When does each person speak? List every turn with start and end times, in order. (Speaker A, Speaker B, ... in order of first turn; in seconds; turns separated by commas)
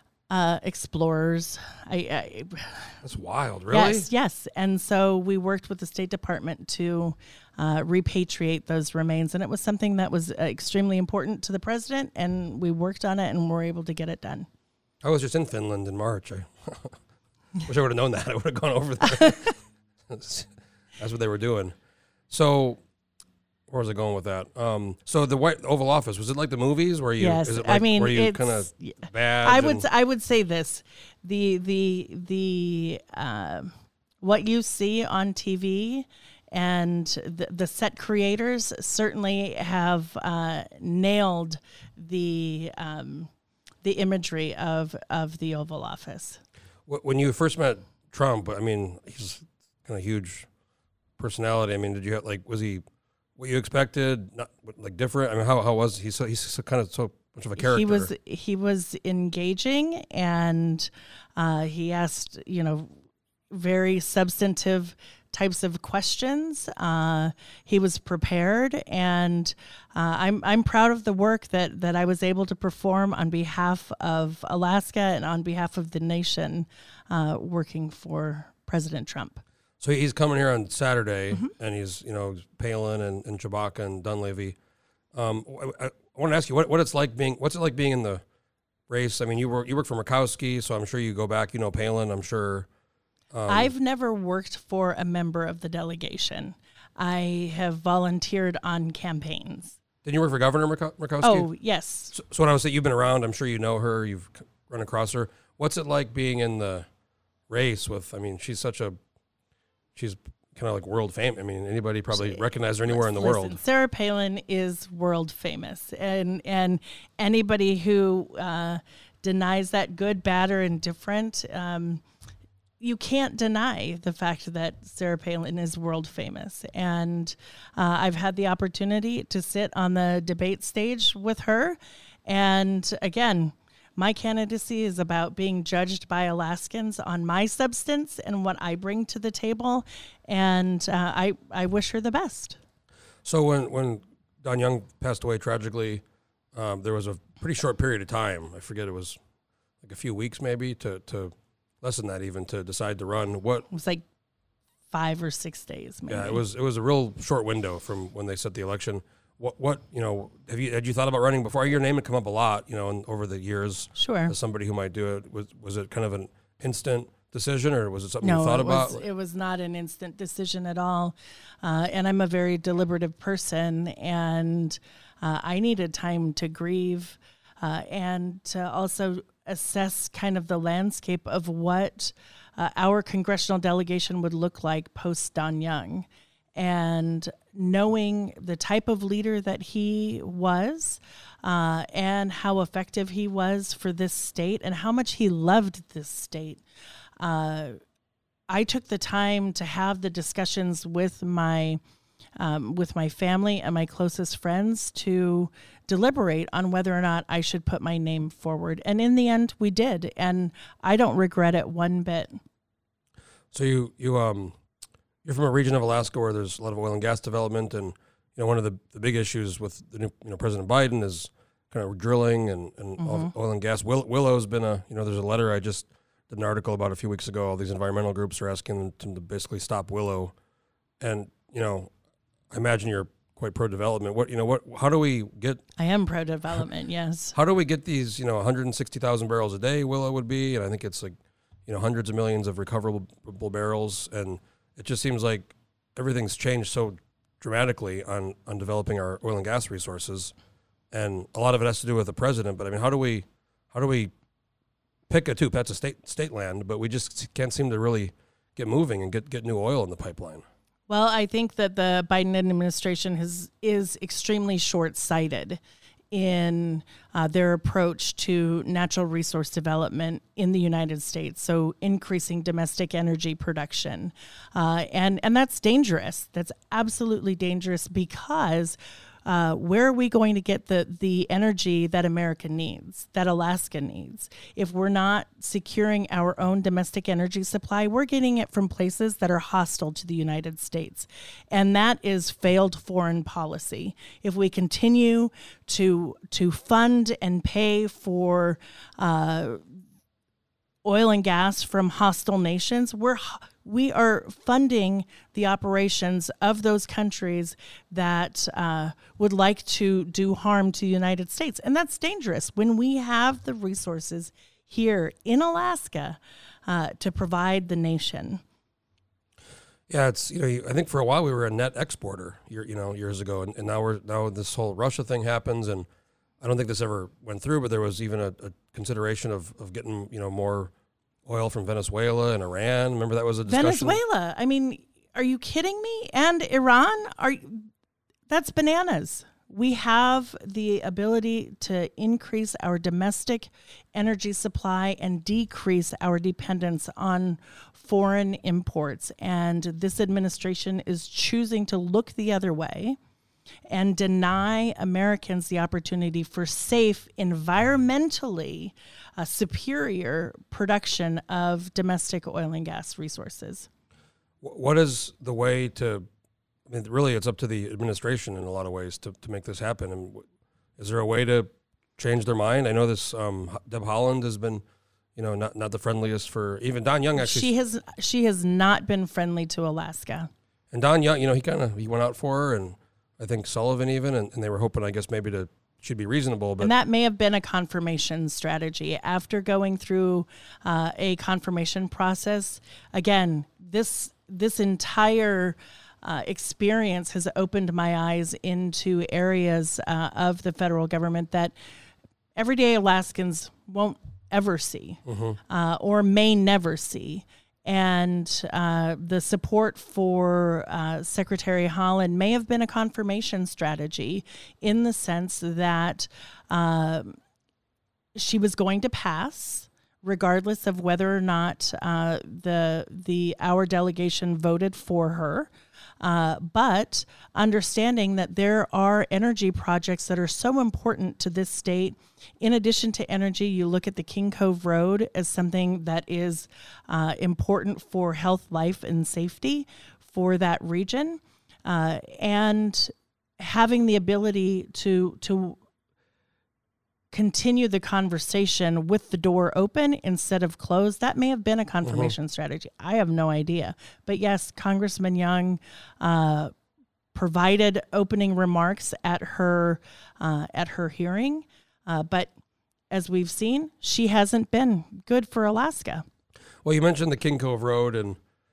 Speaker A: 0.3-3.0, Speaker B: 3.0-4.1, Speaker A: 3.7-14.5, Speaker B: 15.0-17.0, Speaker B: 17.6-21.8, Speaker B: 22.3-22.8, Speaker B: 23.7-29.9, Speaker A: 27.2-43.3, Speaker A: 43.8-46.4, Speaker B: 46.9-50.5, Speaker B: 51.2-52.8, Speaker B: 53.4-58.1, Speaker A: 57.6-62.9, Speaker A: 63.5-79.4, Speaker B: 79.8-84.5, Speaker B: 85.1-88.2, Speaker B: 88.9-92.7, Speaker B: 93.3-93.7, Speaker A: 93.5-99.8, Speaker B: 100.0-101.5, Speaker A: 101.2-102.1, Speaker B: 102.1-106.9, Speaker B: 107.5-109.0, Speaker B: 110.0-113.6, Speaker A: 112.1-122.0, Speaker A: 122.8-142.6, Speaker B: 143.2-149.2, Speaker B: 149.8-153.7, Speaker A: 153.7-154.0, Speaker A: 154.9-156.4, Speaker B: 156.1-169.0, Speaker A: 163.9-164.3, Speaker A: 168.2-196.6, Speaker A: 197.2-197.8, Speaker A: 198.5-201.8, Speaker A: 202.4-212.4, Speaker B: 213.5-214.6, Speaker B: 215.2-230.3, Speaker A: 223.0-223.3, Speaker B: 231.0-231.9, Speaker B: 232.5-235.6, Speaker A: 235.8-237.3, Speaker B: 237.3-250.3, Speaker B: 250.9-254.1, Speaker B: 255.1-260.4, Speaker A: 260.9-265.6, Speaker A: 266.1-299.6, Speaker A: 300.9-318.4, Speaker B: 319.9-325.9, Speaker B: 326.4-330.7, Speaker B: 331.2-334.0, Speaker A: 333.5-337.7, Speaker A: 338.3-353.0, Speaker A: 353.7-363.7, Speaker B: 364.4-366.1, Speaker B: 366.7-370.3, Speaker B: 370.8-374.6, Speaker B: 375.1-377.5, Speaker A: 377.2-380.3, Speaker B: 380.7-386.7, Speaker A: 386.6-401.5, Speaker A: 402.4-417.2, Speaker B: 405.1-405.4, Speaker A: 418.1-425.5, Speaker A: 426.0-445.6, Speaker A: 447.1-456.5, Speaker B: 451.9-452.1, Speaker A: 457.1-462.3, Speaker A: 462.9-466.1, Speaker B: 466.6-468.2